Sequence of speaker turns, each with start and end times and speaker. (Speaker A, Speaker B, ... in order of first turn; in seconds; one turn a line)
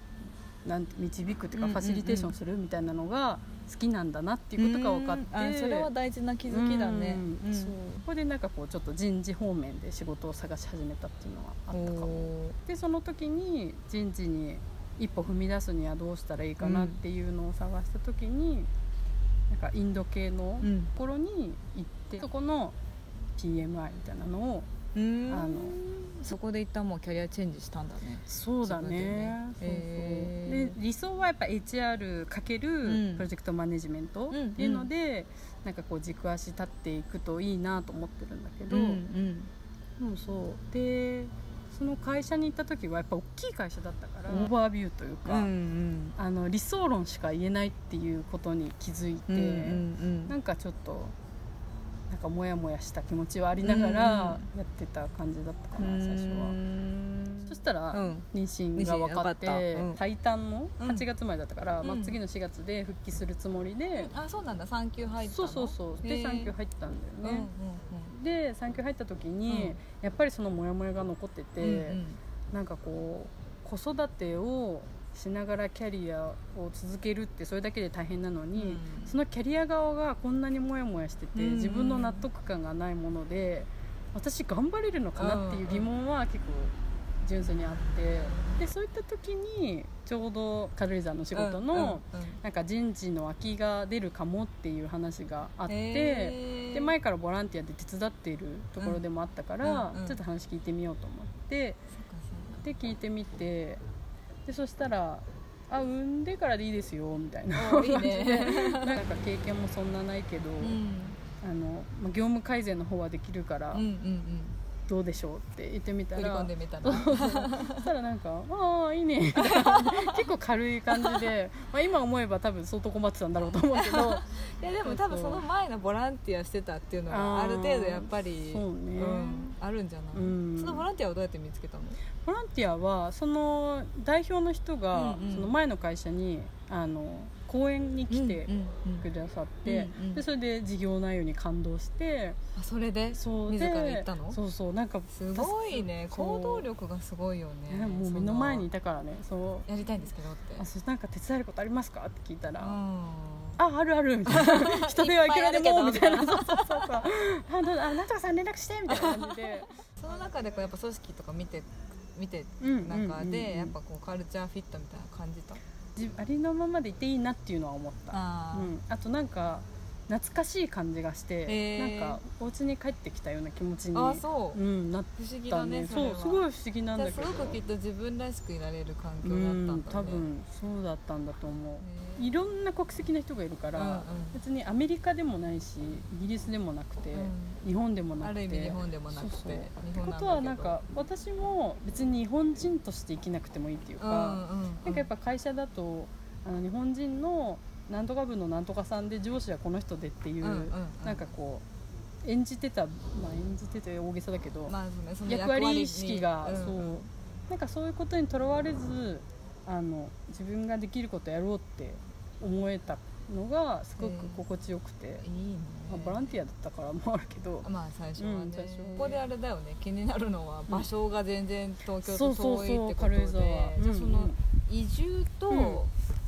Speaker A: 0.6-5.9
Speaker B: 1.6-2.3
Speaker B: 4.6-7.8
Speaker A: 6.5-18.7
Speaker B: 11.7-12.6
Speaker B: 16.6-17.0
Speaker A: 19.5-22.8
Speaker B: 20.6-20.9
Speaker A: 23.4-24.7
Speaker B: 24.9-30.8
Speaker A: 25.3-25.8
Speaker A: 28.3-39.0
Speaker B: 32.9-33.3
Speaker B: 34.3-34.9
Speaker B: 38.7-39.5
Speaker A: 40.0-45.5
Speaker B: 45.2-46.2
Speaker A: 46.2-51.1
Speaker B: 49.3-50.4
Speaker A: 52.1-56.6
Speaker B: 53.6-54.5
Speaker B: 55.8-60.0
Speaker A: 57.5-64.1
Speaker B: 60.8-61.0
Speaker B: 61.8-62.2
Speaker B: 63.9-66.5
Speaker A: 65.2-67.5
Speaker B: 67.2-68.1
Speaker A: 68.1-101.8
Speaker B: 69.5-69.8
Speaker B: 71.6-72.2
Speaker B: 78.6-79.2
Speaker B: 81.3-82.3
Speaker B: 85.2-85.9
Speaker B: 91.3-92.4
Speaker B: 95.7-96.9
Speaker B: 99.6-100.2
Speaker B: 101.9-102.6
Speaker A: 102.6-103.8
Speaker A: 104.5-110.8
Speaker B: 107.5-109.0
Speaker B: 110.6-111.2
Speaker A: 111.4-113.9
Speaker B: 113.7-114.6
Speaker A: 114.9-124.3
Speaker B: 116.2-117.8
Speaker B: 119.4-120.3
Speaker B: 120.9-121.3
Speaker B: 123.8-132.0
Speaker A: 124.8-125.5
Speaker A: 127.1-129.6
Speaker A: 130.1-130.9
Speaker A: 132.2-142.4
Speaker B: 134.9-135.5
Speaker B: 138.1-139.1
Speaker B: 139.7-140.2
Speaker B: 142.6-144.4
Speaker A: 143.1-146.7
Speaker B: 145.1-148.7
Speaker A: 147.7-149.7
Speaker B: 149.7-150.7
Speaker A: 150.6-152.8
Speaker B: 152.6-153.6
Speaker A: 153.6-160.7
Speaker B: 154.3-157.1
Speaker B: 158.9-159.3
Speaker B: 160.0-165.6
Speaker A: 162.6-163.8
Speaker A: 166.0-177.6
Speaker B: 168.1-168.7
Speaker B: 171.5-172.2
Speaker B: 173.9-174.6
Speaker B: 175.2-180.3
Speaker A: 179.2-201.6
Speaker B: 181.8-182.3
Speaker B: 183.8-184.4
Speaker B: 187.2-187.6
Speaker B: 188.2-190.8
Speaker B: 194.0-195.1
Speaker B: 200.4-201.3
Speaker A: 202.2-204.8
Speaker B: 204.7-207.1
Speaker A: 205.3-215.2
Speaker B: 214.0-214.4
Speaker B: 215.2-216.3
Speaker A: 215.9-217.7
Speaker B: 217.6-225.9
Speaker A: 218.2-219.2
Speaker A: 222.1-224.4
Speaker A: 225.5-225.8